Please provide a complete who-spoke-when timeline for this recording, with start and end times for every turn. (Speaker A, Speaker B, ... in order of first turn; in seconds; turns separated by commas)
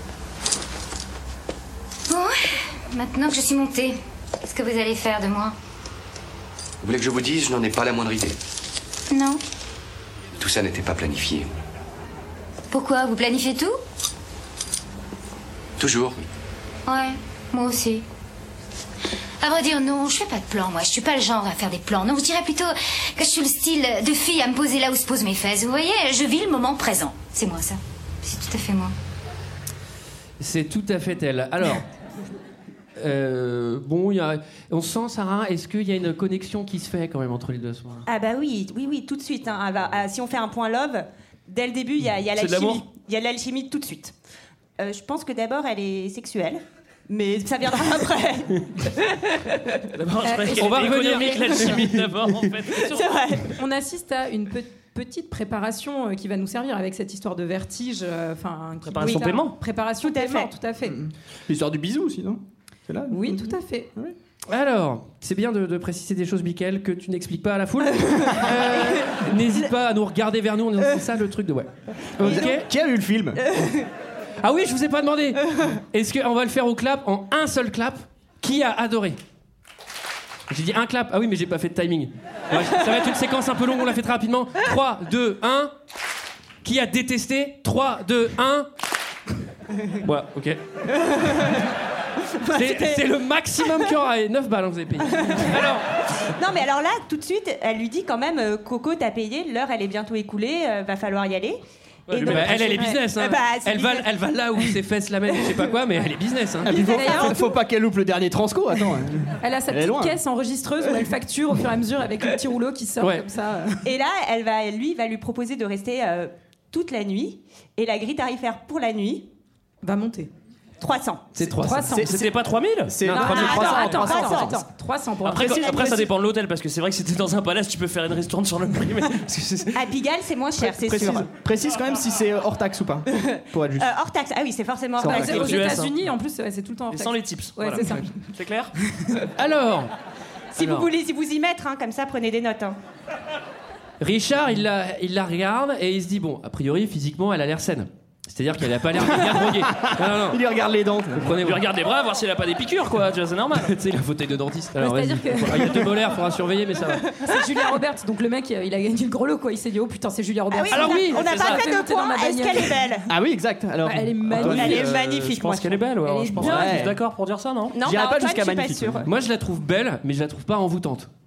Speaker A: 2.1-5.5, Speaker B: 6.8-8.4, Speaker A: 9.1-9.4, Speaker B: 10.4-11.5, Speaker A: 12.7-13.8, Speaker B: 15.8-16.2, Speaker A: 16.9-18.0, Speaker A: 19.4-28.9, Speaker C: 30.4-31.9, Speaker C: 33.0-38.0, Speaker D: 38.1-44.1, Speaker E: 42.3-42.8, Speaker D: 44.8-49.8, Speaker E: 49.9-53.1, Speaker F: 50.2-51.2, Speaker C: 50.5-52.1, Speaker D: 52.8-53.5, Speaker F: 53.5-61.0, Speaker E: 58.8-59.6, Speaker D: 60.0-60.5, Speaker G: 60.9-64.1, Speaker F: 63.1-63.9, Speaker C: 64.5-72.7, Speaker G: 72.2-73.5, Speaker C: 74.4-79.2, Speaker C: 80.5-85.7, Speaker C: 86.6-88.7, Speaker C: 90.0-90.6, Speaker D: 91.0-91.6, Speaker D: 92.4-93.0, Speaker C: 92.4-95.8, Speaker D: 95.2-95.6, Speaker D: 96.2-104.1, Speaker E: 102.1-102.7, Speaker C: 102.2-106.7, Speaker G: 106.6-110.2, Speaker D: 106.7-107.3, Speaker F: 106.7-107.5, Speaker F: 109.4-113.9, Speaker C: 113.0-113.2, Speaker D: 113.8-119.3, Speaker F: 119.8-120.3, Speaker D: 120.8-121.3, Speaker C: 121.4-121.9, Speaker F: 121.5-122.2, Speaker G: 121.8-122.3, Speaker E: 122.0-123.4, Speaker G: 122.9-124.6, Speaker F: 123.1-126.1, Speaker D: 123.2-124.6, Speaker E: 125.2-129.9, Speaker D: 129.7-131.3, Speaker G: 130.6-133.9, Speaker D: 133.1-135.7, Speaker G: 135.0-135.5, Speaker F: 135.0-138.1, Speaker E: 135.1-135.9, Speaker E: 136.9-138.7, Speaker C: 139.3-139.9, Speaker D: 140.5-142.8, Speaker C: 140.6-140.9, Speaker C: 144.0-150.4, Speaker G: 149.0-151.4, Speaker C: 151.2-151.6, Speaker E: 151.3-153.7, Speaker C: 153.6-157.1, Speaker F: 154.8-156.0, Speaker F: 157.2-162.8, Speaker D: 160.5-163.1, Speaker C: 160.7-161.6, Speaker G: 163.1-164.8, Speaker F: 163.8-164.8, Speaker C: 164.4-165.0, Speaker D: 164.4-165.9, Speaker E: 164.4-167.8, Speaker F: 166.0-166.8, Speaker G: 166.4-167.0, Speaker D: 167.7-169.1, Speaker G: 167.7-169.1, Speaker C: 169.1-171.1